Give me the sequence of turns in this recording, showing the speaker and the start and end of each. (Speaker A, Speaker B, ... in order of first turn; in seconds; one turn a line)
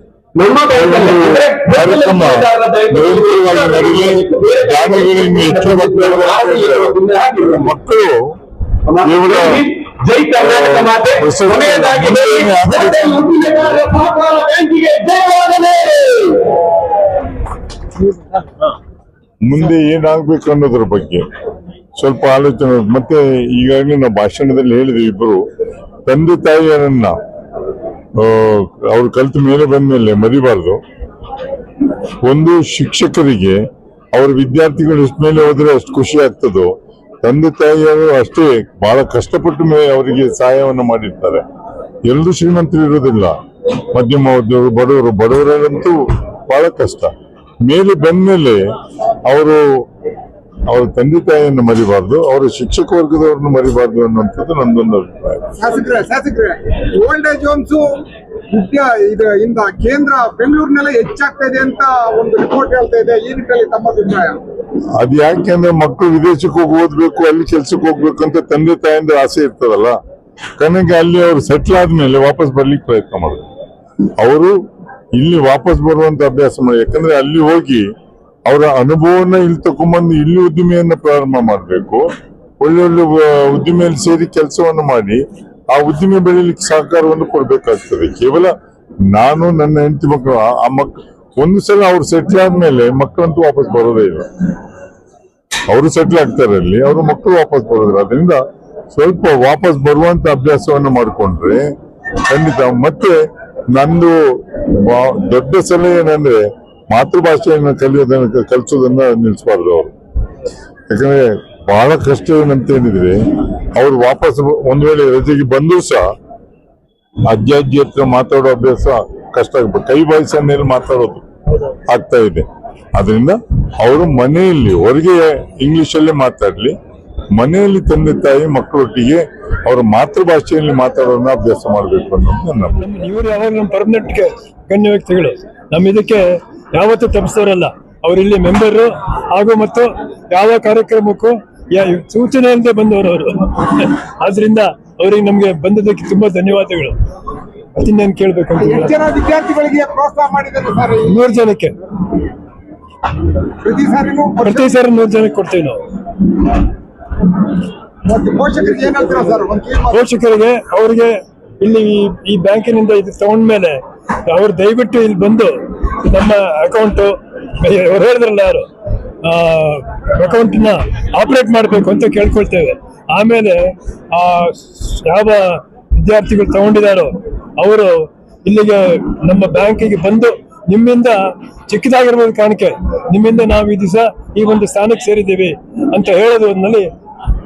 Speaker A: 0.3-7.7
Speaker B: 0.7-8.3
Speaker A: 8.9-16.6
Speaker B: 9.0-9.7
Speaker B: 10.4-13.3
Speaker B: 19.4-21.2
Speaker B: 21.9-25.4
Speaker B: 26.1-27.2
Speaker B: 28.2-30.8
Speaker B: 32.2-33.6
Speaker B: 34.1-36.7
Speaker B: 37.2-41.4
Speaker B: 42.0-43.3
Speaker B: 43.9-47.1
Speaker B: 47.6-48.6
Speaker B: 49.2-49.6
Speaker B: 50.7-55.5
Speaker C: 55.6-64.4
Speaker B: 65.0-70.0
Speaker B: 70.6-73.4
Speaker B: 74.2-74.5
Speaker B: 75.2-77.9
Speaker B: 78.5-82.0
Speaker B: 82.6-88.5
Speaker B: 89.1-94.3
Speaker B: 95.7-98.4
Speaker B: 98.9-101.7
Speaker B: 102.2-103.2
Speaker B: 103.7-109.9
Speaker B: 110.9-116.1
Speaker B: 117.3-121.2
Speaker B: 121.9-126.7
Speaker B: 127.3-132.8
Speaker D: 132.8-147.0
Speaker D: 147.8-148.9
Speaker C: 148.6-151.2
Speaker D: 151.0-151.8
Speaker C: 153.6-154.7
Speaker D: 154.4-155.8
Speaker C: 158.0-160.0
Speaker D: 159.9-168.7
Speaker D: 169.2-186.9